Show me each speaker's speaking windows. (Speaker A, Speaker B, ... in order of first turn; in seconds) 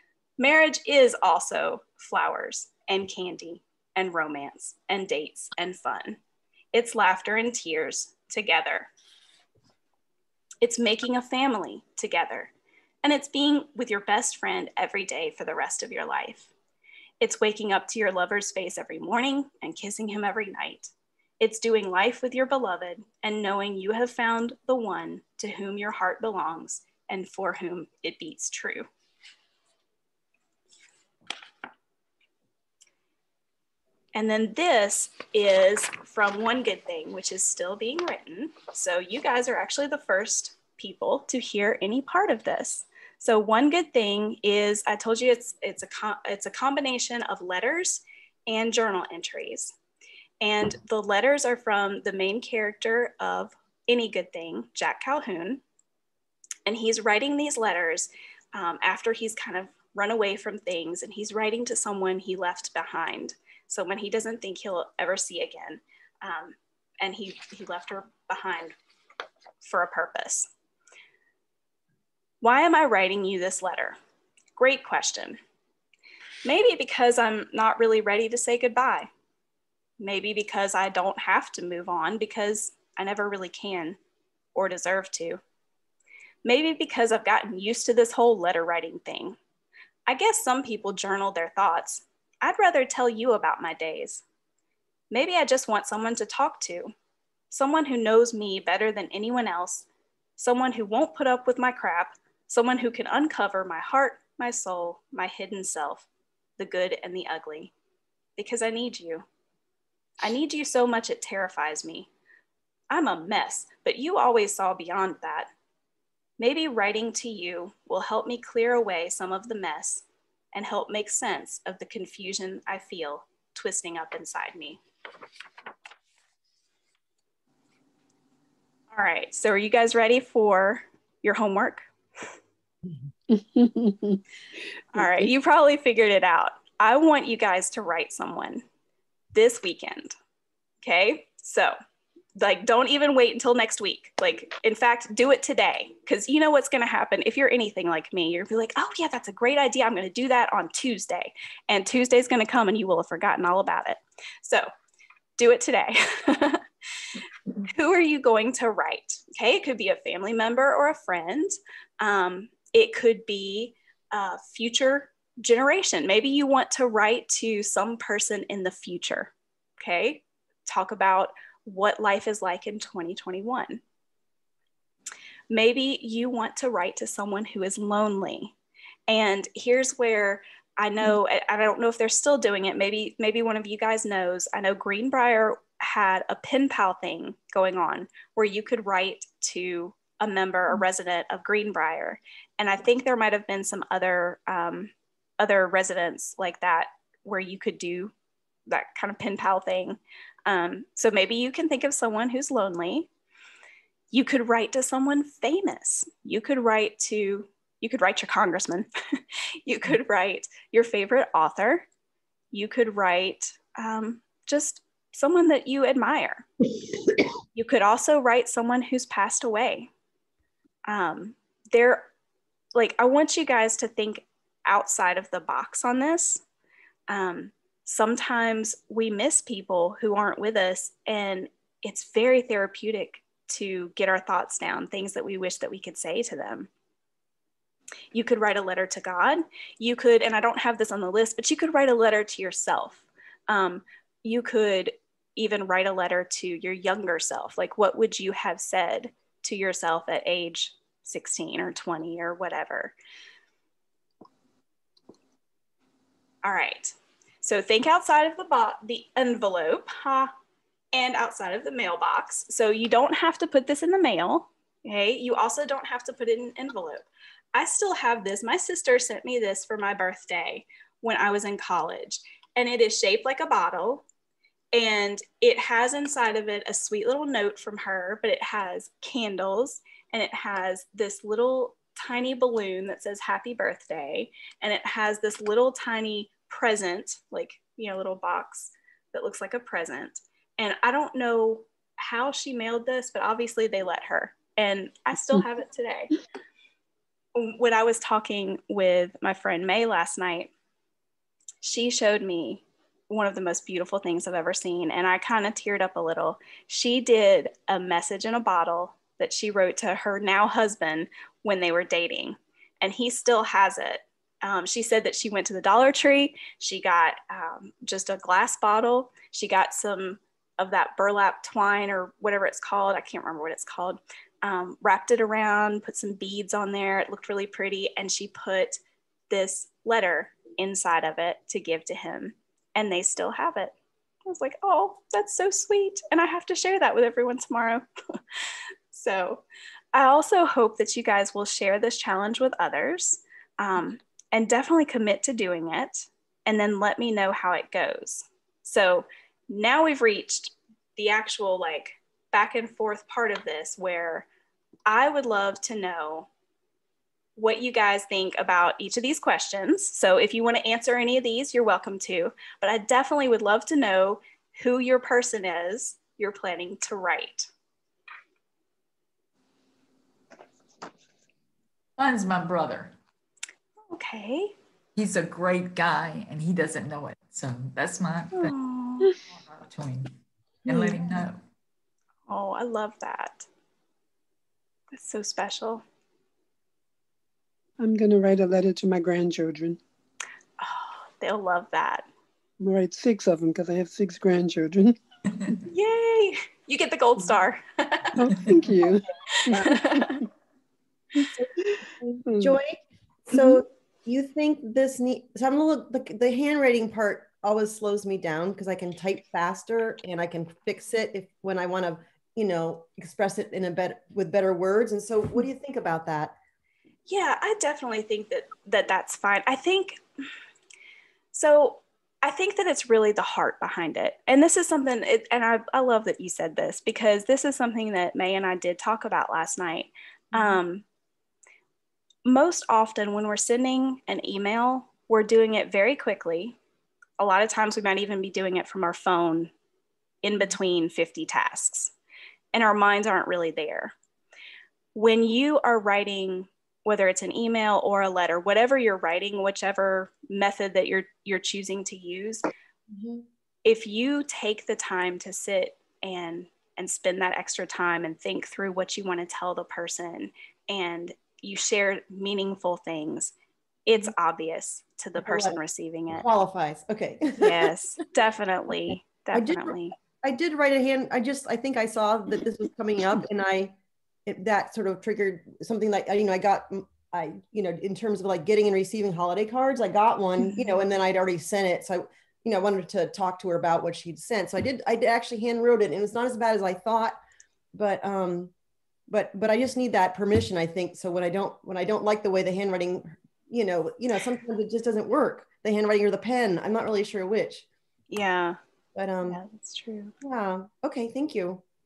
Speaker A: 0.4-6.2, 6.7-8.9, 10.6-12.5, 13.0-16.5, 17.2-28.9, 34.1-49.7, 50.4-55.6, 56.6-68.7, 69.6-70.5, 72.4-74.0, 74.6-75.4, 76.4-79.1, 80.0-84.0, 84.5-85.4, 86.4-89.4, 90.1-94.2, 95.1-96.9, 97.5-99.8, 100.4-106.1, 106.6-107.7, 108.4-109.2, 110.2-112.1, 112.9-115.5, 116.4-124.8, 128.9-131.9, 134.9-138.6, 139.3-140.2, 140.8-141.7, 142.4-154.7, 155.4-156.6, 157.6-173.8, 175.5-178.5, 179.1-198.1, 198.7-203.1, 204.1-208.9, 209.7-211.8, 212.5-216.5, 217.5-219.9, 220.9-222.1, 222.7-226.4, 227.1-236.7, 238.1-252.9, 256.4-260.3, 260.9-274.0, 274.7-296.1, 297.3-300.5, 301.6-333.7, 334.2-338.2, 338.9-354.2, 354.9-356.3, 357.4-367.5, 373.9-374.5, 378.3-379.1, 382.3-383.5, 384.9-385.8, 390.6-392.1, 395.7-398.3, 399.3-400.2, 417.1-420.0, 421.3-430.8, 432.2-436.6, 437.2-439.5, 440.2-441.9, 442.5-443.9, 444.9-452.4, 453.6-463.3, 463.9-466.2, 467.4-469.9, 480.4-480.7, 498.1-498.6, 499.3-500.1
Speaker B: 133.3-134.2, 134.9-135.3, 387.8-389.8, 392.6-395.0, 398.1-400.2, 402.2-402.6, 403.3-403.6
Speaker C: 372.0-372.9, 374.9-378.5, 379.3-380.1, 380.6-381.4
Speaker D: 401.4-402.8, 403.3-416.3, 452.9-453.2, 465.2-465.6, 466.1-467.7, 469.3-487.2, 487.7-488.5, 489.1-497.6, 498.9-499.4, 500.2-501.6